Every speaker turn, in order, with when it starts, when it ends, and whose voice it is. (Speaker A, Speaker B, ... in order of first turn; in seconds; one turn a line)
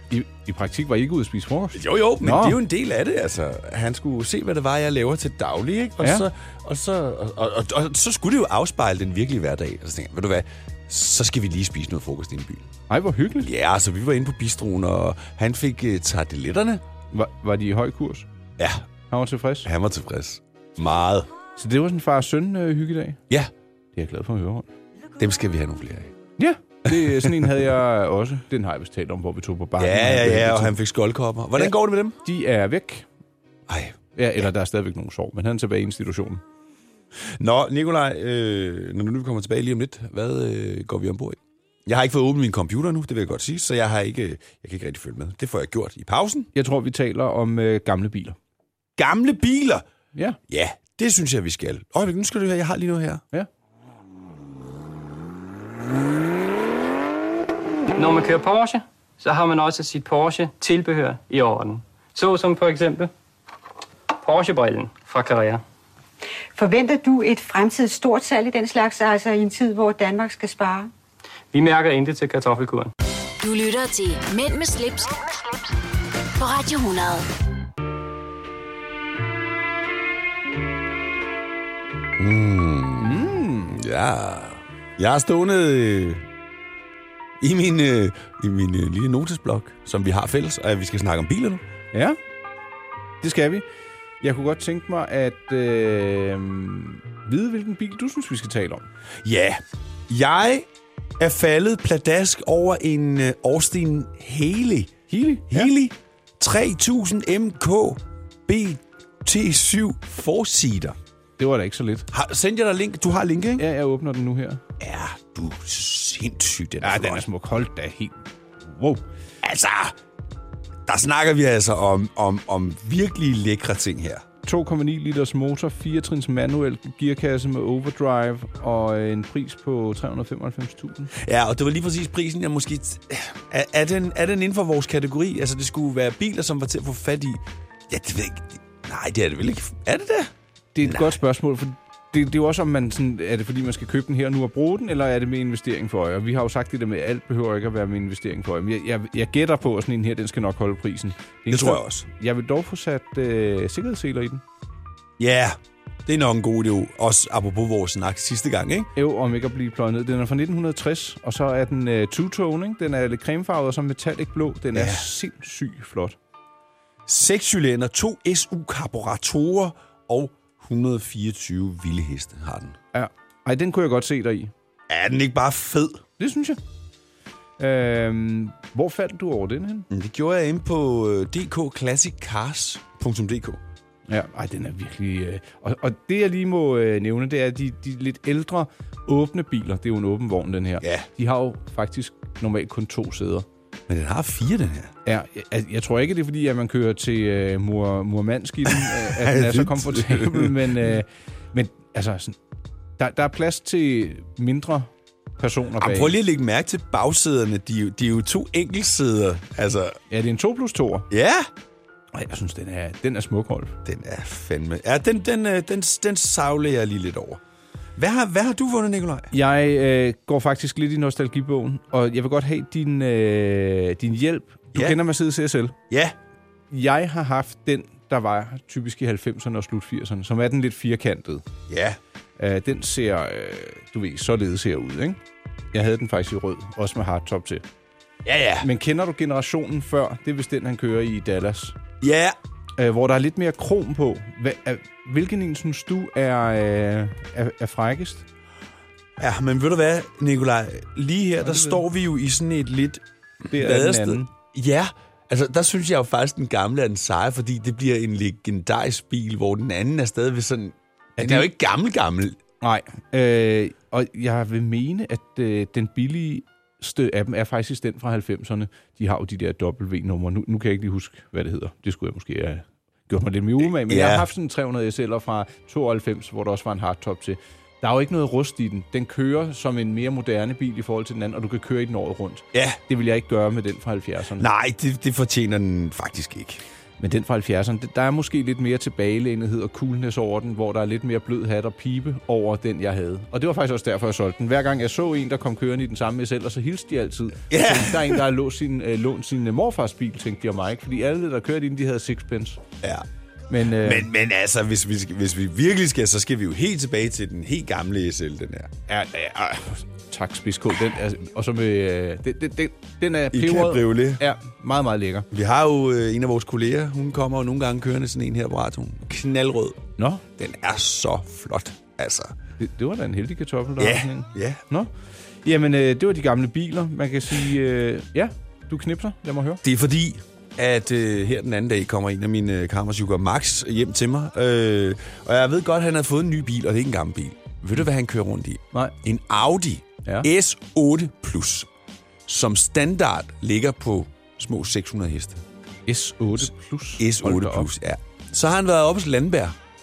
Speaker A: 0.1-2.6
Speaker B: 1.7-12.7
Speaker A: 12.9-13.5
Speaker B: 13.4-16.8
Speaker A: 17.1-18.3
Speaker B: 18.6-18.9
Speaker A: 19.1-19.7
Speaker B: 19.6-21.3
Speaker A: 21.6-23.2
Speaker A: 23.9-24.7
Speaker B: 25.2-26.1
Speaker A: 26.4-30.8
Speaker B: 26.9-27.6
Speaker B: 29.8-32.2
Speaker A: 31.6-33.1
Speaker B: 33.7-34.0
Speaker A: 34.1-36.4
Speaker B: 37.4-46.5
Speaker A: 46.5-48.4
Speaker B: 49.0-49.9
Speaker B: 50.5-53.2
Speaker C: 57.9-63.1
Speaker C: 64.2-65.6
Speaker D: 66.5-70.9
Speaker C: 71.5-72.9
Speaker E: 73.4-75.3
Speaker E: 76.3-77.3
Speaker B: 82.2-86.2
Speaker A: 83.0-83.8
Speaker B: 87.4-91.6
Speaker A: 91.9-92.2
Speaker A: 93.2-93.6
Speaker A: 94.2-98.9
Speaker B: 99.2-100.7
Speaker B: 101.2-104.9
Speaker A: 105.1-105.7
Speaker B: 105.5-111.0
Speaker A: 111.4-112.1
Speaker B: 112.1-113.6
Speaker A: 113.6-114.6
Speaker B: 114.8-117.2
Speaker A: 116.8-119.0
Speaker B: 119.4-119.9
Speaker B: 120.9-124.2
Speaker A: 124.5-131.1
Speaker B: 131.1-140.3
Speaker A: 140.7-154.4
Speaker B: 140.8-141.1
Speaker B: 151.5-152.1
Speaker B: 155.2-158.9
Speaker A: 159.0-166.2
Speaker B: 164.7-165.0
Speaker B: 167.1-172.8
Speaker A: 172.9-174.5
Speaker B: 174.9-176.0
Speaker A: 176.2-176.6
Speaker A: 177.6-179.9
Speaker B: 179.9-183.6
Speaker A: 184.1-193.5
Speaker B: 190.8-191.1
Speaker B: 193.9-194.9
Speaker A: 195.0-202.4
Speaker B: 198.7-200.9
Speaker A: 203.0-206.1
Speaker B: 205.8-210.0
Speaker A: 210.1-211.1
Speaker B: 211.1-211.5
Speaker A: 212.1-213.8
Speaker B: 213.8-217.4
Speaker B: 218.0-219.3
Speaker A: 219.3-225.8
Speaker B: 225.9-226.2
Speaker A: 226.7-231.4
Speaker B: 231.7-232.0
Speaker A: 232.4-235.2
Speaker A: 235.7-237.6
Speaker B: 238.2-238.7
Speaker A: 238.6-241.8
Speaker B: 242.0-242.4
Speaker A: 242.8-248.2
Speaker B: 249.2-262.4
Speaker A: 251.4-251.8
Speaker A: 253.5-254.3
Speaker A: 261.2-261.5
Speaker A: 262.6-284.5
Speaker B: 273.6-274.3
Speaker B: 282.5-282.8
Speaker B: 284.4-286.6
Speaker A: 287.0-302.6
Speaker B: 297.5-298.2
Speaker A: 303.5-304.1
Speaker B: 303.8-308.7
Speaker A: 308.9-315.3
Speaker B: 313.3-314.2
Speaker B: 315.3-319.8
Speaker A: 320.0-320.2
Speaker B: 320.3-322.4
Speaker A: 322.6-324.9
Speaker B: 323.8-324.6
Speaker A: 325.4-329.6
Speaker B: 329.6-341.7
Speaker B: 342.2-345.4
Speaker A: 345.9-347.7
Speaker B: 347.0-349.6